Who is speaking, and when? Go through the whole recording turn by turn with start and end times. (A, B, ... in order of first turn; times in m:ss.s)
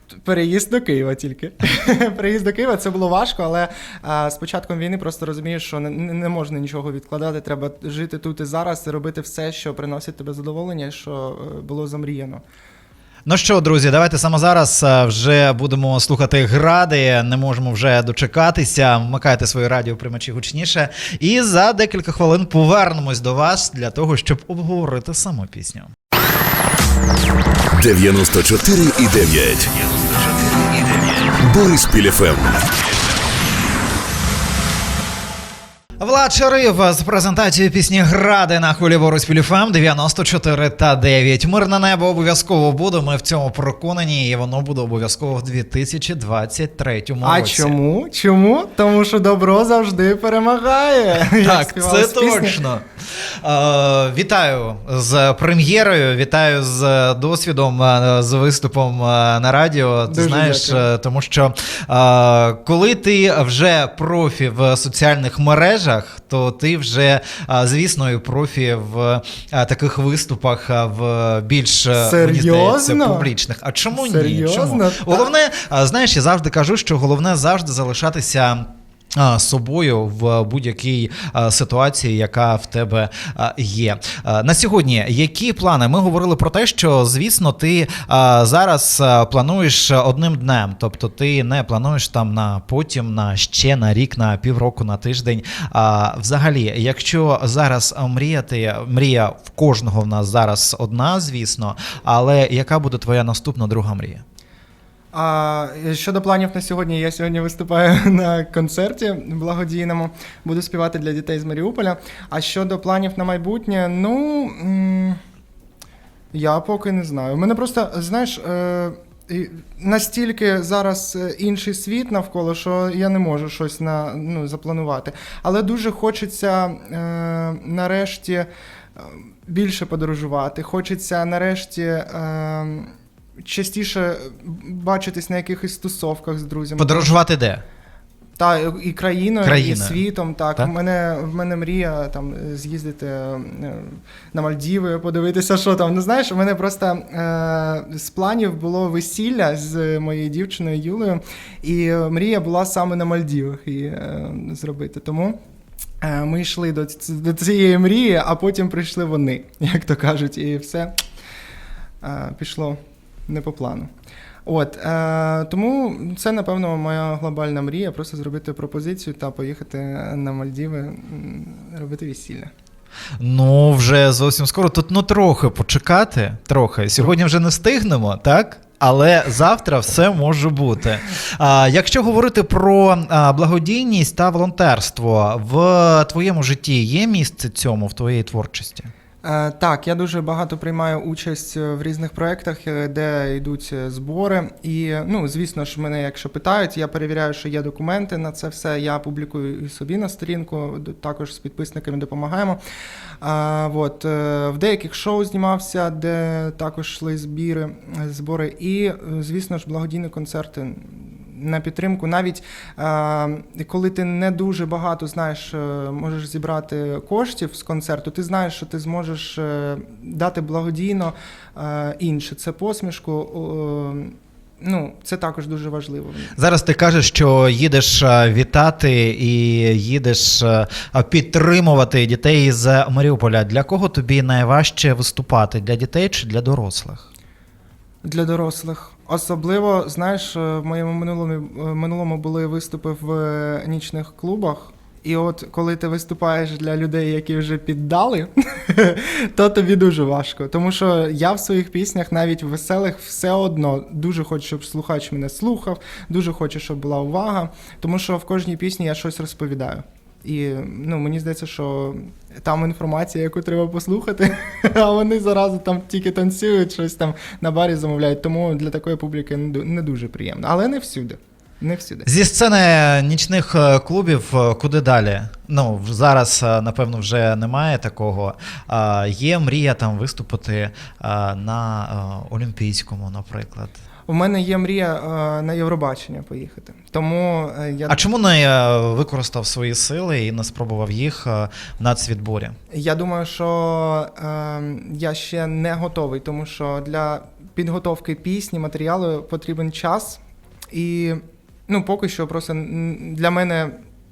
0:00.2-0:12.4 A
0:13.3-0:25.9 B
0:27.7-0:32.7 C
0:36.0-0:47.8 B
0:47.2-0:52.6 A
0:51.4-1:44.2 B
1:00.1-1:00.9 A
1:12.0-1:13.3 A
1:13.9-1:15.3 A
1:45.1-1:55.2 A
1:56.3-2:17.1 A
2:16.8-2:17.6 B
2:18.4-2:35.4 A
2:19.4-2:20.0 B
2:36.0-2:41.0 A
2:42.0-2:43.9 A
2:44.5-2:52.5 A
2:53.2-3:08.9 B
3:09.2-3:22.6 A
3:23.2-3:46.3 A
3:46.4-3:57.0 B
3:58.0-4:32.1 A
4:32.0-4:43.8 B
4:44.1-4:48.0 A
4:47.9-4:52.6 B
4:52.7-5:03.8 A